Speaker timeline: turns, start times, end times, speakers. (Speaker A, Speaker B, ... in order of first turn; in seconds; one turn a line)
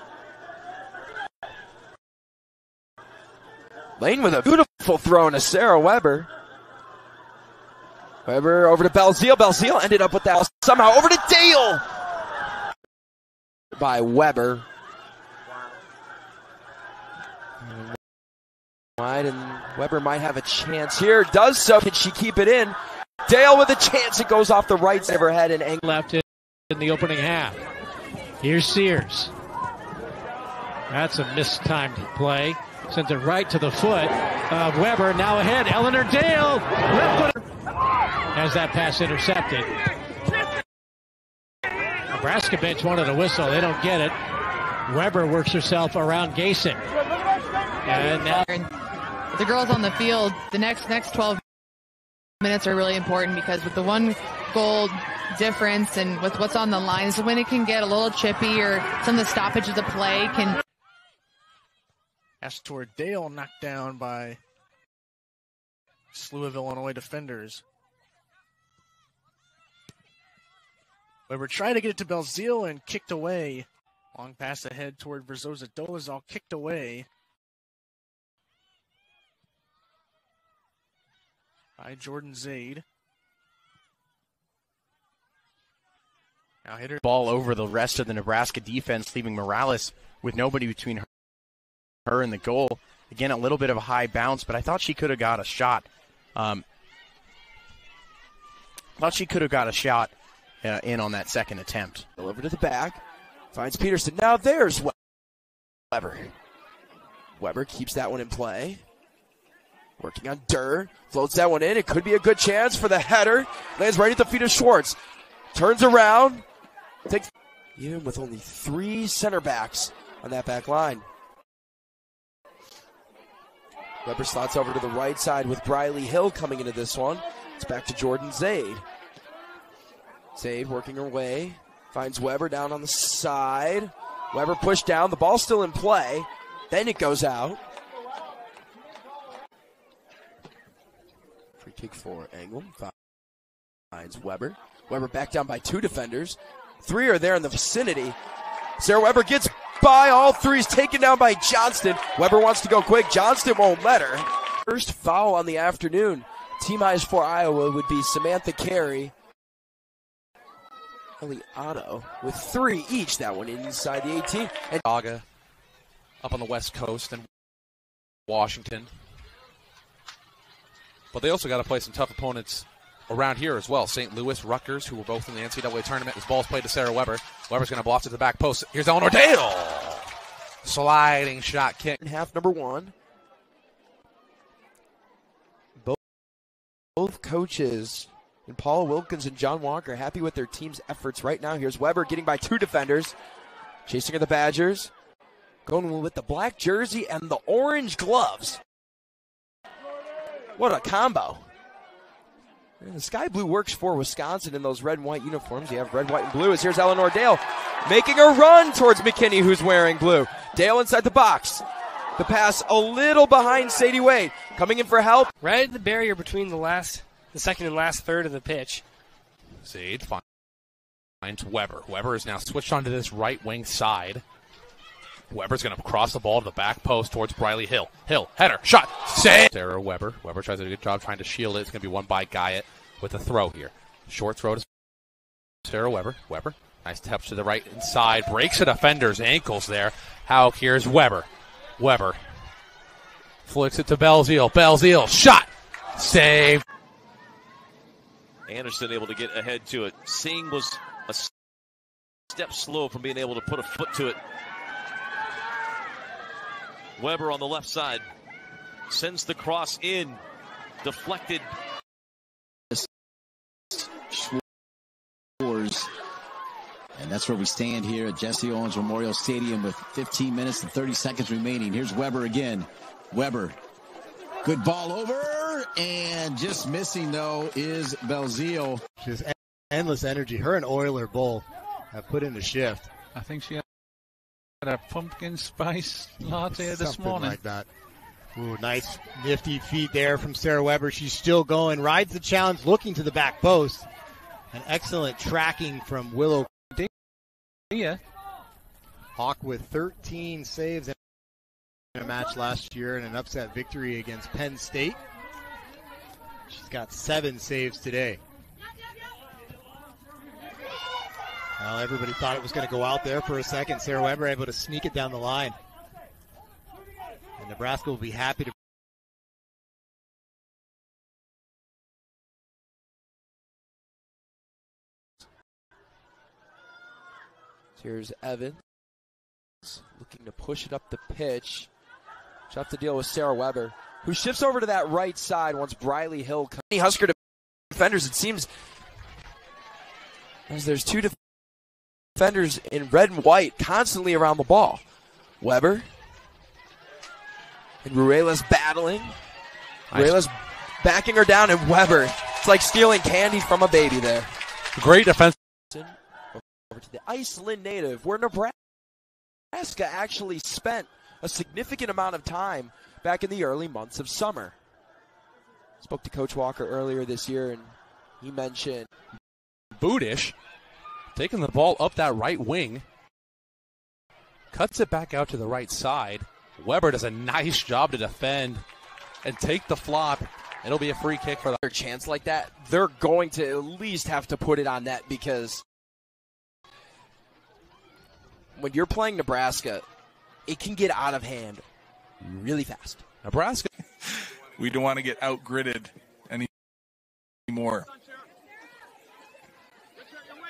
Speaker A: 4.0-6.3
Speaker A: 8.2-11.8
Speaker A: 13.7-14.7
Speaker A: 17.6-17.9
Speaker A: 19.0-25.9
Speaker B: 25.9-27.6
Speaker B: 28.4-29.3
Speaker B: 30.9-37.4
Speaker B: 38.4-39.7
Speaker B: 42.1-44.1
Speaker B: 44.9-46.8
Speaker B: 47.9-48.5
Speaker C: 48.0-48.7
Speaker C: 49.3-51.4
Speaker C: 52.4-60.6
Speaker D: 62.4-64.4
Speaker D: 66.1-67.6
Speaker D: 71.3-77.1
Speaker D: 81.8-82.8
Speaker D: 86.7-87.0
Speaker E: 87.0-91.1
Speaker E: 92.1-96.7
Speaker E: 99.0-102.1
Speaker A: 102.2-103.0
Speaker A: 103.5-104.9
Speaker A: 105.9-106.3
Speaker A: 107.4-108.8
Speaker A: 110.0-115.0
Speaker A: 115.5-116.5
Speaker A: 117.1-121.0
Speaker A: 124.0-128.8
Speaker A: 130.3-137.6
Speaker A: 141.6-142.9
Speaker A: 143.9-148.2
Speaker A: 148.8-159.1
Speaker A: 161.2-164.8
Speaker F: 164.8-165.2
Speaker F: 166.2-167.3
Speaker F: 168.3-168.9
Speaker F: 171.1-180.1
Speaker F: 180.6-182.0
Speaker A: 182.0-182.9
Speaker A: 187.0-193.2
Speaker A: 193.9-194.9
Speaker A: 195.7-198.6
Speaker A: 200.6-201.5
Speaker A: 202.8-211.7
Speaker A: 212.2-215.3
Speaker G: 215.4-218.8
Speaker F: 219.6-220.2
Speaker F: 221.2-224.2
Speaker F: 225.3-234.7
Speaker F: 235.6-242.2
Speaker F: 243.5-246.6
Speaker H: 248.5-251.3
Speaker H: 252.3-254.2
Speaker H: 257.0-258.1
Speaker H: 258.9-260.2
Speaker H: 260.8-261.5
Speaker I: 263.7-264.4
Speaker I: 265.4-265.9
Speaker I: 266.9-273.6
Speaker I: 274.4-278.8
Speaker J: 279.0-282.9
Speaker K: 283.1-283.6
Speaker K: 284.6-287.4
Speaker J: 286.5-287.7
Speaker J: 288.4-293.9
Speaker J: 294.5-296.5
Speaker K: 297.7-298.0
Speaker J: 299.2-301.0
Speaker J: 301.9-305.0
Speaker J: 306.5-308.2
Speaker J: 311.6-315.6
Speaker J: 317.4-318.5
Speaker A: 327.8-328.6
Speaker A: 329.6-331.7
Speaker A: 332.5-337.1
Speaker A: 337.7-338.5
Speaker A: 340.5-341.1
Speaker A: 342.2-344.8
Speaker A: 345.4-345.9
Speaker A: 347.8-349.2
Speaker A: 349.9-354.3
Speaker F: 349.9-350.2
Speaker F: 354.8-355.4
Speaker A: 355.7-358.5
Speaker A: 359.5-364.5
Speaker A: 365.8-368.9
Speaker F: 369.8-370.4
Speaker F: 371.1-372.9
Speaker F: 374.5-378.6
Speaker F: 379.2-381.6
Speaker A: 381.6-385.6
Speaker A: 388.6-389.9
Speaker A: 390.5-391.6
Speaker A: 392.2-393.1
Speaker F: 393.2-393.7
Speaker L: 394.1-396.5
Speaker L: 397.5-397.9